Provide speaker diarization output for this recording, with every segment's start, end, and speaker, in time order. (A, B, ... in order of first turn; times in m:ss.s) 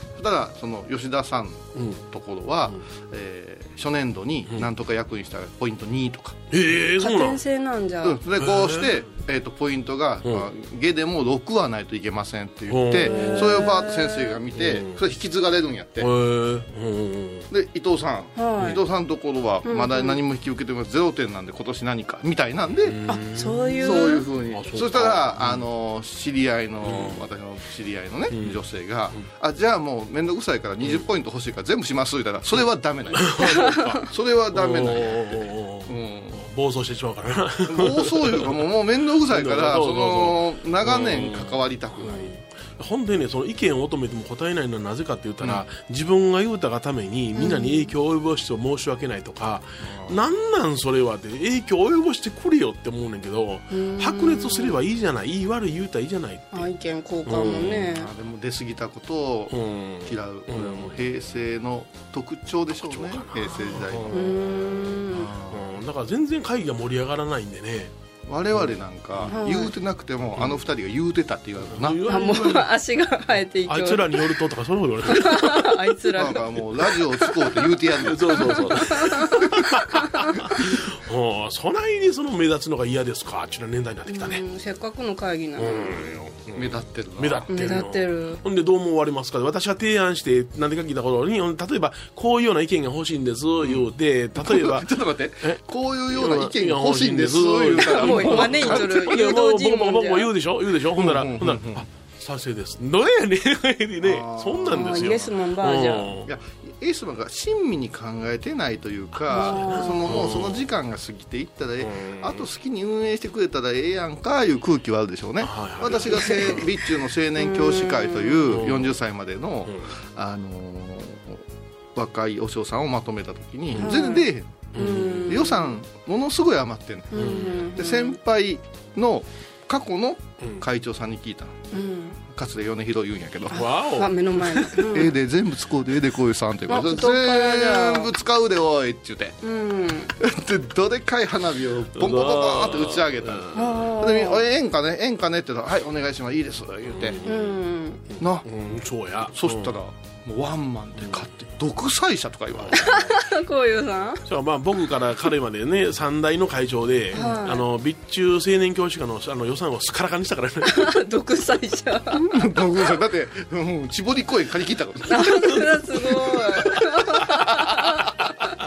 0:00.2-0:06.4 A
0:01.8-0:02.0 B
0:06.5-0:07.4 B
0:07.0-0:08.2 C
0:08.0-0:16.1 A
0:08.4-0:09.0 B
0:12.7-0:13.7 B
0:13.1-0:14.3 C
0:14.5-0:15.0 B
0:16.0-0:17.5 B
0:17.5-0:23.0 A
0:18.4-0:18.8 C
0:19.6-0:20.2 C
0:22.8-0:25.6 B
0:23.1-0:24.2 C
0:23.8-0:36.5 A
0:26.8-0:27.2 B
0:28.3-0:28.6 B
0:33.1-0:38.7 B
0:33.5-0:33.8 C
0:37.7-0:42.3 A
0:39.3-0:56.7 B
0:47.4-0:47.9 C
0:49.8-0:50.2 A
0:53.7-0:54.8 C
0:56.5-0:58.1 C
0:57.3-0:58.0 B
0:57.8-1:04.4 A
0:59.5-1:01.0 B
1:02.7-1:04.4 B
1:04.1-1:05.3 C
1:05.1-1:05.8 A
1:05.5-1:07.9 B
1:08.3-1:12.0 A
1:08.6-1:09.3 B
1:09.3-1:09.7 C
1:10.4-1:10.6 B
1:11.7-1:12.7 B
1:12.1-1:14.4 C
1:13.7-1:15.7 B
1:15.1-1:17.6 C
1:16.2-1:18.8 A
1:18.0-1:24.4 B
1:18.3-1:20.4 C
1:24.1-1:26.1 C
1:25.6-1:46.3 B
1:26.6-1:27.8 A
1:27.5-1:28.4 C
1:33.6-1:39.1 A
1:37.8-1:40.3 C
1:40.9-1:41.8 A
1:44.0-1:45.1 A
1:44.7-1:46.1 C
1:46.2-2:01.4 A
1:49.3-1:50.7 B
1:49.3-1:50.0 C
1:51.8-1:52.5 B
1:55.4-1:56.7 B
1:57.4-1:58.4 C
1:58.5-1:59.0 B
1:59.7-1:59.9 B
2:02.0-2:04.7 A
2:03.7-2:04.0 B
2:03.8-2:04.2 C
2:04.7-2:05.5 B
2:04.8-2:05.7 C
2:05.3-2:11.6 A
2:07.1-2:08.2 C
2:07.2-2:07.6 B
2:11.7-2:12.2 C
2:12.3-2:13.7 A
2:13.5-2:14.9 B
2:13.5-2:15.1 C
2:14.9-2:19.4 A
2:16.7-2:18.1 C
2:19.4-2:20.1 C
2:20.2-2:27.2 A
2:22.0-2:23.9 B
2:23.5-2:24.4 C
2:26.9-2:27.6 B
2:27.2-2:28.0 C
2:28.1-2:29.8 B
2:28.2-2:28.5 A
2:29.3-2:33.2 A
2:32.6-2:32.8 B
2:32.8-2:34.2 C
2:34.3-2:40.9 B
2:37.1-2:37.6 C
2:40.7-2:42.2 C
2:42.1-2:45.3 A
2:45.1-2:48.0 C